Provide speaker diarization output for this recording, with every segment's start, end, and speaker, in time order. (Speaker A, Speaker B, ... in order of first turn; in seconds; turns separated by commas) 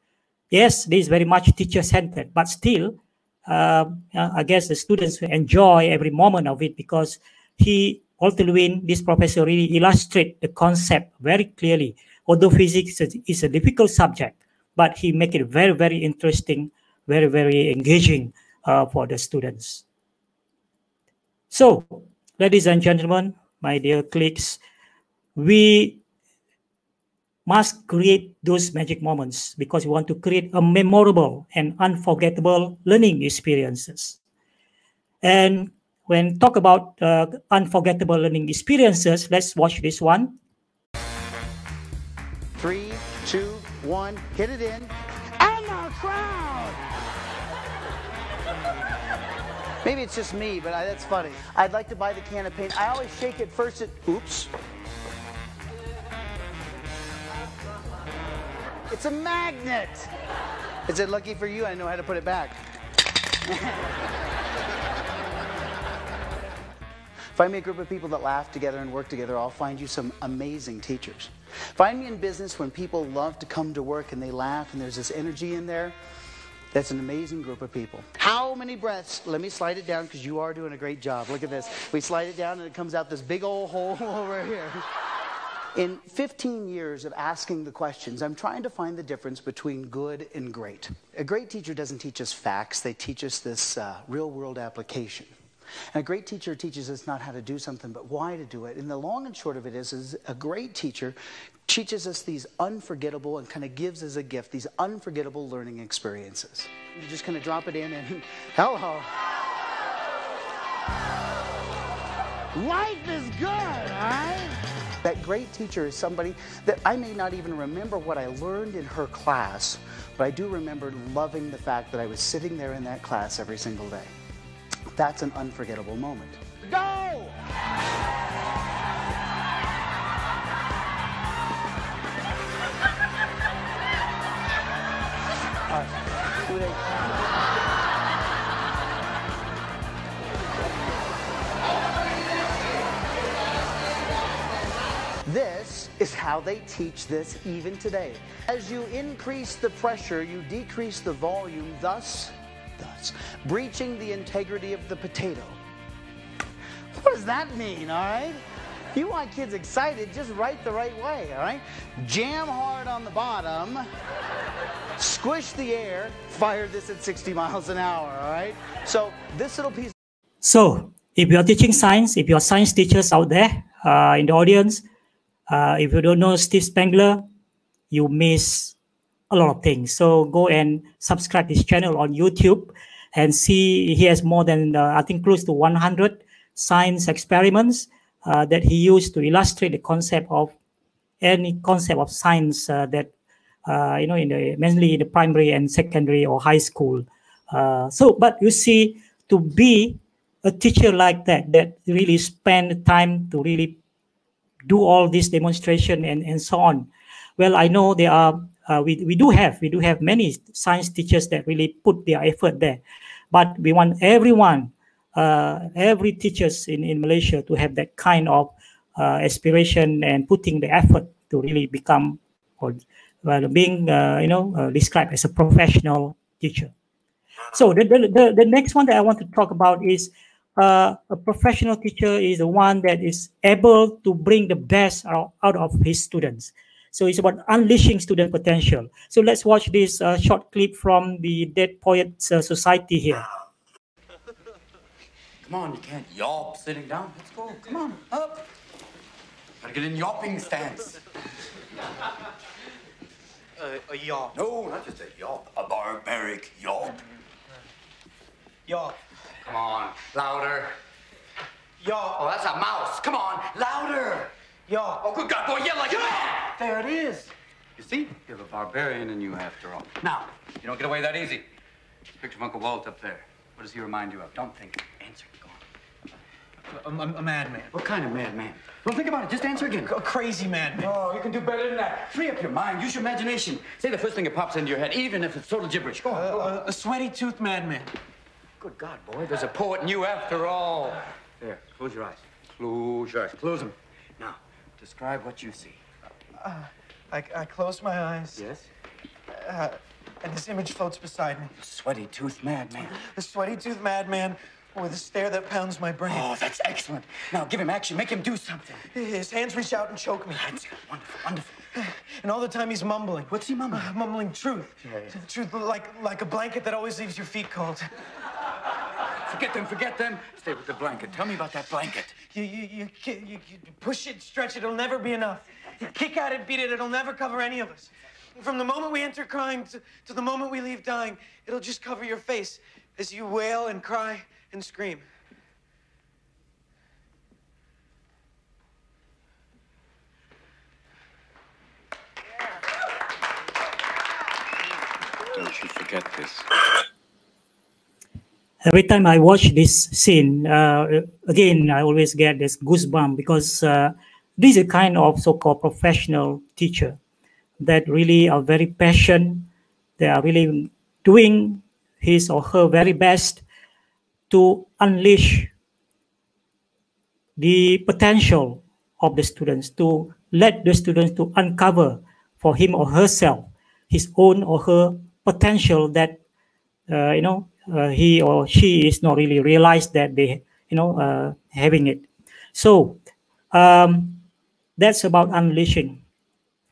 Speaker A: 0.5-19.8, Speaker A: 21.5-24.6, Speaker A: 25.4-26.0, Speaker A: 27.4-34.2, Speaker A: 35.2-40.4, Speaker B: 42.6-46.8, Speaker B: 49.8-54.5, Speaker B: 58.9-60.1, Speaker B: 60.9-62.6, Speaker B: 63.5-63.8, Speaker B: 67.3-75.9, Speaker B: 76.7-84.8, Speaker B: 85.7-95.3, Speaker B: 95.9-109.1, Speaker B: 112.5-124.1, Speaker B: 124.9-127.3, Speaker B: 136.4-137.0, Speaker B: 145.2-155.6, Speaker B: 156.9-158.4, Speaker B: 158.9-163.9, Speaker B: 165.0-169.9, Speaker A: 170.4-174.8, Speaker A: 175.5-177.2, Speaker A: 177.9-178.8, Speaker A: 179.3-190.5, Speaker A: 191.2-193.1, Speaker A: 193.7-203.8, Speaker A: 204.6-212.8, Speaker A: 213.3-226.7, Speaker A: 227.5-243.2, Speaker C: 245.4-248.5, Speaker C: 249.6-251.0, Speaker D: 254.0-254.3, Speaker C: 254.3-257.0, Speaker D: 258.7-258.9, Speaker C: 259.4-260.7, Speaker D: 261.8-262.2, Speaker C: 262.1-264.3, Speaker D: 264.7-265.0, Speaker C: 265.0-271.4, Speaker C: 272.2-275.6, Speaker D: 276.8-277.7, Speaker C: 277.7-279.9, Speaker D: 279.7-280.9, Speaker C: 280.7-286.6, Speaker D: 286.1-287.9, Speaker C: 288.6-295.8, Speaker D: 296.4-298.4, Speaker C: 298.4-298.7, Speaker D: 299.4-301.5, Speaker C: 301.6-303.0, Speaker D: 302.9-306.3, Speaker C: 306.0-308.8, Speaker D: 308.9-310.8, Speaker C: 310.3-311.6, Speaker D: 311.7-317.9, Speaker C: 313.3-313.9, Speaker C: 314.8-315.2, Speaker C: 319.3-322.2, Speaker D: 322.3-335.1, Speaker C: 345.3-346.4, Speaker A: 348.6-357.0, Speaker A: 357.6-359.5, Speaker A: 360.0-363.4, Speaker A: 364.3-365.5, Speaker A: 367.4-376.2, Speaker A: 376.9-383.0, Speaker A: 383.5-384.2, Speaker A: 384.8-386.0